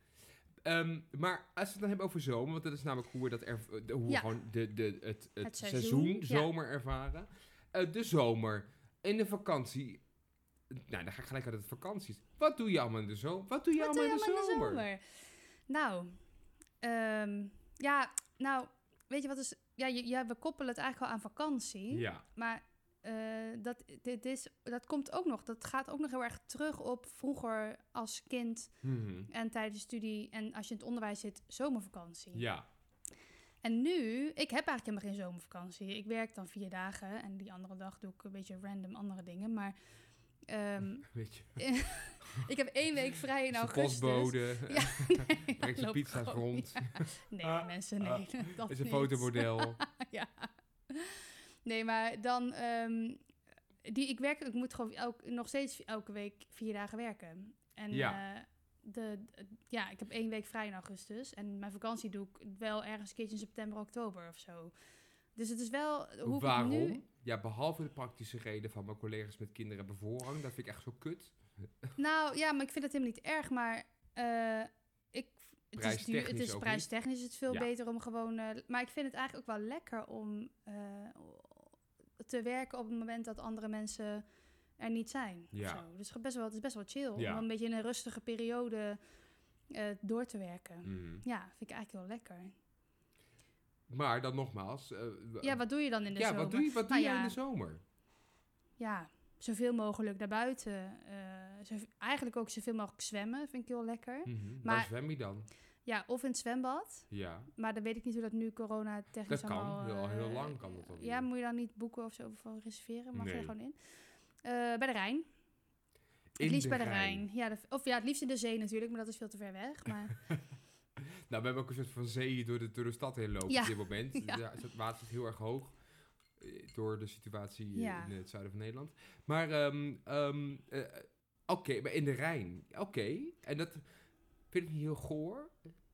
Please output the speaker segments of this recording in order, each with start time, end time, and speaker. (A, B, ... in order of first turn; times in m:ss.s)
0:00.6-0:10.0 A
0:05.4-0:06.5 B
0:10.7-0:14.8 A
0:13.7-0:16.2 B
0:16.8-0:28.7 B
0:21.9-0:22.2 A
0:28.8-0:29.3 A
0:29.3-0:32.4 B
0:32.3-0:32.7 A
0:33.6-0:39.7 B
0:40.5-0:53.2 B
0:41.0-0:41.7 A
0:43.5-0:49.8 A
0:53.8-1:04.7 B
0:57.9-0:58.2 A
1:05.4-1:07.0 B
1:06.2-1:11.9 A
1:12.0-1:24.2 B
1:15.8-1:16.9 A
1:24.8-1:29.0 B
1:25.5-1:25.8 A
1:27.2-1:27.4 A
1:29.7-1:32.6 B
1:30.8-1:31.2 A
1:33.9-1:37.8 A
1:35.4-1:37.4 B
1:38.8-1:44.9 B
1:44.2-1:45.5 A
1:45.9-1:53.8 B
1:47.1-1:47.5 A
1:49.3-1:51.2 A
1:53.1-1:53.5 A
1:54.4-1:55.2 B
1:56.4-1:57.2 A
1:56.4-2:00.2 B
2:01.3-2:05.7 A
2:03.5-2:04.4 B
2:06.4-2:13.8 A
2:07.7-2:08.1 B
2:14.5-2:15.7 A